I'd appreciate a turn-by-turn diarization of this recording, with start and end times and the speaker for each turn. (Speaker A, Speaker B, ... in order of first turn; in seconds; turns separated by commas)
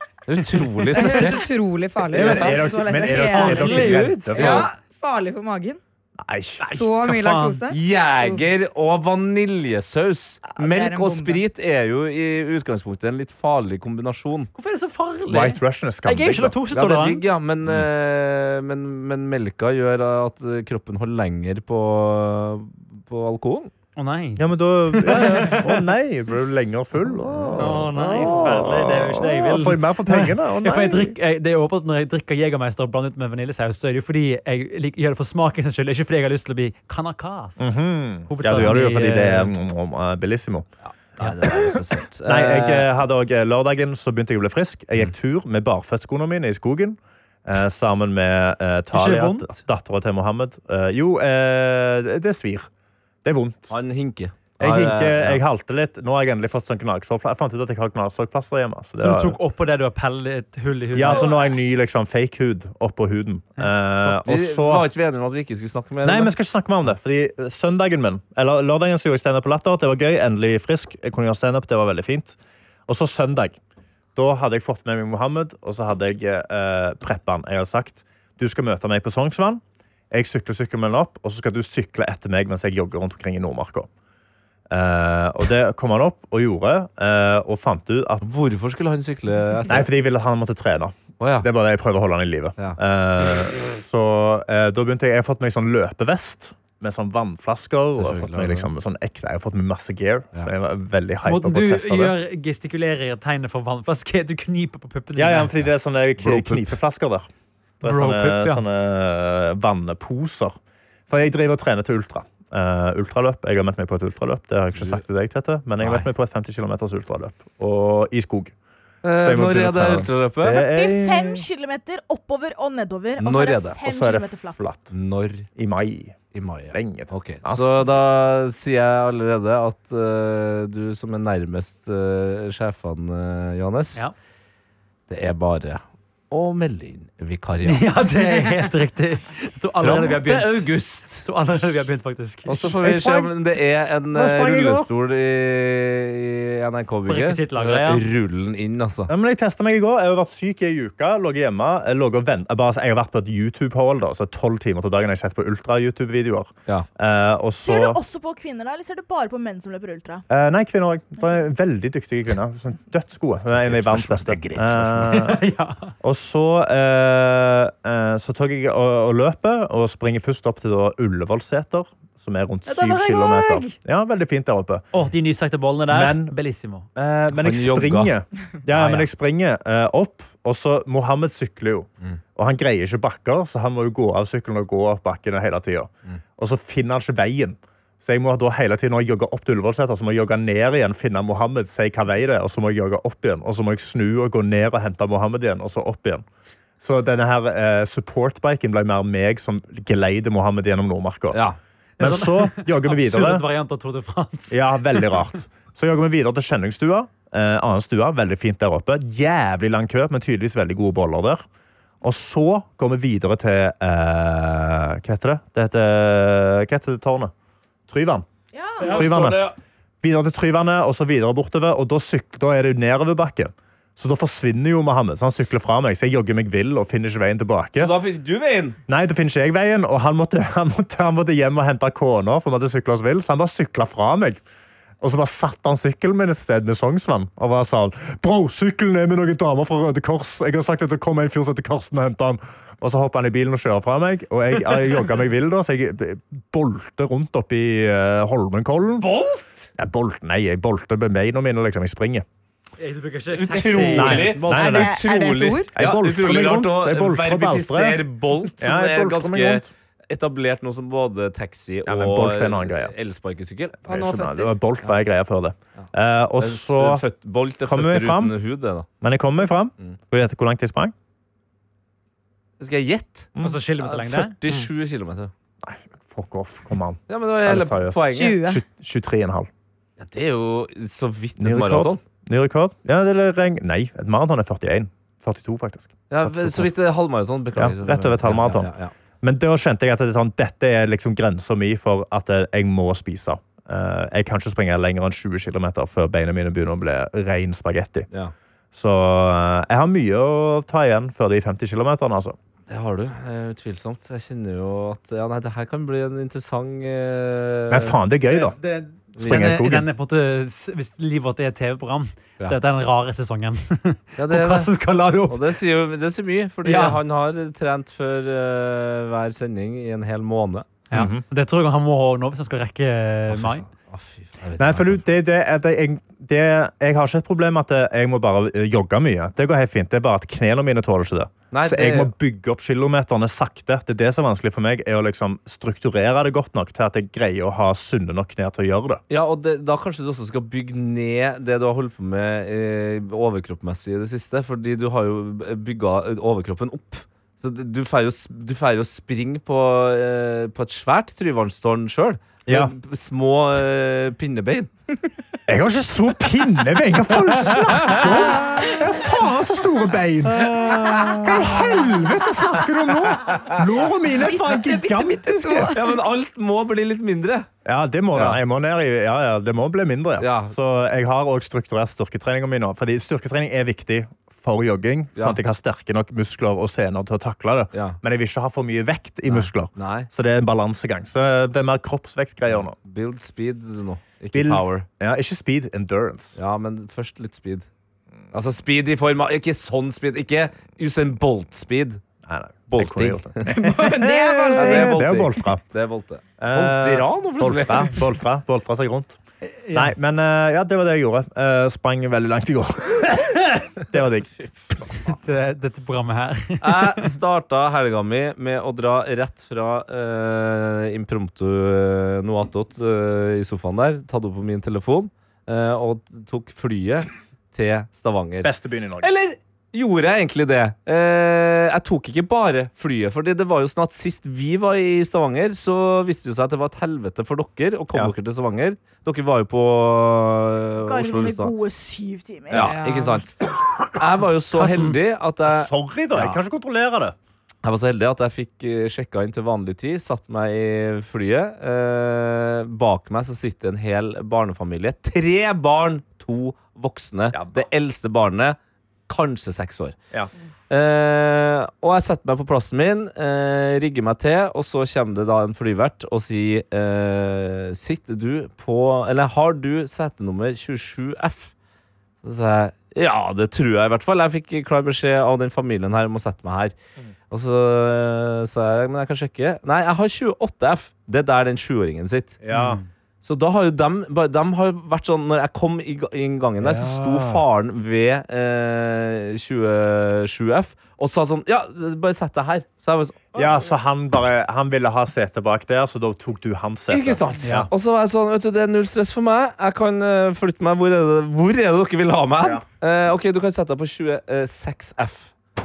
Speaker A: 0.3-1.4, Speaker B: 0.9-5.8, Speaker C: 0.9-1.3, Speaker D: 2.1-4.7, Speaker A: 2.1-4.7, Speaker E: 3.3-4.7, Speaker D: 6.2-6.9, Speaker B: 6.7-8.4, Speaker E: 7.0-7.6, Speaker A: 7.7-14.5, Speaker B: 10.5-11.4, Speaker E: 14.6-17.2, Speaker D: 15.3-16.6, Speaker A: 16.7-23.7, Speaker E: 24.0-25.8, Speaker D: 24.4-31.1, Speaker A: 27.3-28.3, Speaker E: 27.6-37.7, Speaker D: 37.6-40.7, Speaker E: 38.3-39.5, Speaker A: 40.9-42.9, Speaker D: 41.5-52.7, Speaker E: 48.9-49.6, Speaker D: 53.2-53.8, Speaker A: 53.7-55.4, Speaker D: 54.6-59.4, Speaker E: 59.0-61.3, Speaker D: 60.9-64.9, Speaker A: 64.0-66.3, Speaker D: 66.0-73.6, Speaker D: 74.2-83.9, Speaker D: 84.7-88.2, Speaker A: 88.2-89.9, Speaker D: 89.7-102.2, Speaker A: 91.2-91.5, Speaker A: 97.9-98.7, Speaker E: 101.2-105.7, Speaker D: 105.2-107.3, Speaker A: 106.2-106.7, Speaker D: 107.8-110.6, Speaker E: 107.8-108.6, Speaker D: 111.1-118.5, Speaker A: 114.8-115.0, Speaker A: 115.8-116.1, Speaker A: 119.0-120.6, Speaker D: 119.2-121.5, Speaker C: 120.5-124.6, Speaker A: 123.2-123.8, Speaker D: 123.8-124.9, Speaker A: 124.9-125.5, Speaker D: 125.6-127.9, Speaker A: 126.3-134.1, Speaker A: 135.1-138.0, Speaker E: 137.7-140.7, Speaker A: 139.8-141.3, Speaker E: 141.2-142.7, Speaker A: 142.5-149.1, Speaker D: 142.8-143.4, Speaker D: 144.1-144.9, Speaker E: 147.1-148.1, Speaker D: 149.1-158.0, Speaker C: 157.6-160.2, Speaker D: 160.3-165.4, Speaker A: 163.4-165.1, Speaker E: 165.1-165.9, Speaker D: 166.0-174.9, Speaker E: 172.7-173.8, Speaker E: 174.9-176.9, Speaker D: 175.9-176.3, Speaker D: 176.9-196.2, Speaker A: 177.3-178.1, Speaker E: 178.7-179.1, Speaker D: 196.8-201.4, Speaker A: 201.3-201.6, Speaker E: 202.0-205.2, Speaker D: 202.0-203.4, Speaker D: 204.5-211.4, Speaker D: 212.0-217.3, Speaker D: 217.9-218.3, Speaker C: 218.5-219.1, Speaker A: 218.8-219.6, Speaker D: 218.8-219.5, Speaker D: 220.0-227.9, Speaker A: 227.8-228.8, Speaker D: 228.9-234.4, Speaker D: 235.0-249.1, Speaker A: 249.0-249.7, Speaker D: 249.8-252.2, Speaker E: 252.8-254.8, Speaker A: 253.3-264.9, Speaker D: 253.9-255.0, Speaker B: 254.4-255.7, Speaker D: 255.8-258.0, Speaker D: 258.6-259.7, Speaker D: 261.9-262.9, Speaker D: 263.8-267.0, Speaker A: 265.8-268.9, Speaker D: 267.6-268.4, Speaker D: 269.0-270.9, Speaker A: 272.6-275.3, Speaker D: 273.4-273.6, Speaker E: 273.4-274.4, Speaker D: 275.6-279.5, Speaker A: 277.1-278.4, Speaker B: 278.1-278.6, Speaker A: 280.0-282.0, Speaker D: 281.4-286.7, Speaker A: 286.1-288.9, Speaker D: 287.5-298.1, Speaker D: 298.7-302.4, Speaker A: 302.7-308.0, Speaker D: 307.7-308.6, Speaker E: 308.3-315.6, Speaker A: 309.2-309.5, Speaker D: 309.2-309.9, Speaker A: 314.2-314.7, Speaker A: 315.3-320.7, Speaker E: 316.6-317.0, Speaker E: 320.9-323.6, Speaker D: 320.9-321.2, Speaker A: 323.3-325.0, Speaker D: 324.6-339.0, Speaker A: 331.5-332.1, Speaker A: 339.1-354.7, Speaker D: 352.5-352.7, Speaker D: 355.5-365.8, Speaker B: 364.3-365.8, Speaker A: 365.7-367.5, Speaker D: 367.6-382.8, Speaker A: 368.1-368.4, Speaker A: 370.2-370.6, Speaker A: 377.7-378.0, Speaker A: 379.3-380.1, Speaker A: 382.5-384.9, Speaker D: 384.3-386.4, Speaker A: 386.4-387.7, Speaker A: 388.3-392.0, Speaker D: 392.3-395.6, Speaker A: 392.7-393.8, Speaker B: 393.5-395.0, Speaker A: 394.5-398.1, Speaker D: 396.4-399.2, Speaker E: 399.4-399.9, Speaker D: 399.7-404.3, Speaker A: 404.4-405.2, Speaker E: 405.2-407.1, Speaker A: 406.6-431.5, Speaker D: 418.4-419.1, Speaker C: 430.8-432.8, Speaker A: 432.5-433.3, Speaker B: 432.5-433.2, Speaker A: 433.9-436.4, Speaker E: 434.5-435.0, Speaker D: 435.4-437.1, Speaker A: 437.6-448.6, Speaker D: 447.3-447.7, Speaker A: 449.1-450.0, Speaker A: 450.7-461.5, Speaker A: 462.2-466.8, Speaker A: 467.3-472.4, Speaker D: 472.4-472.8, Speaker E: 472.5-472.8, Speaker A: 473.2-483.5, Speaker D: 476.6-477.4, Speaker D: 483.4-487.7, Speaker A: 486.9-495.3, Speaker E: 487.4-487.7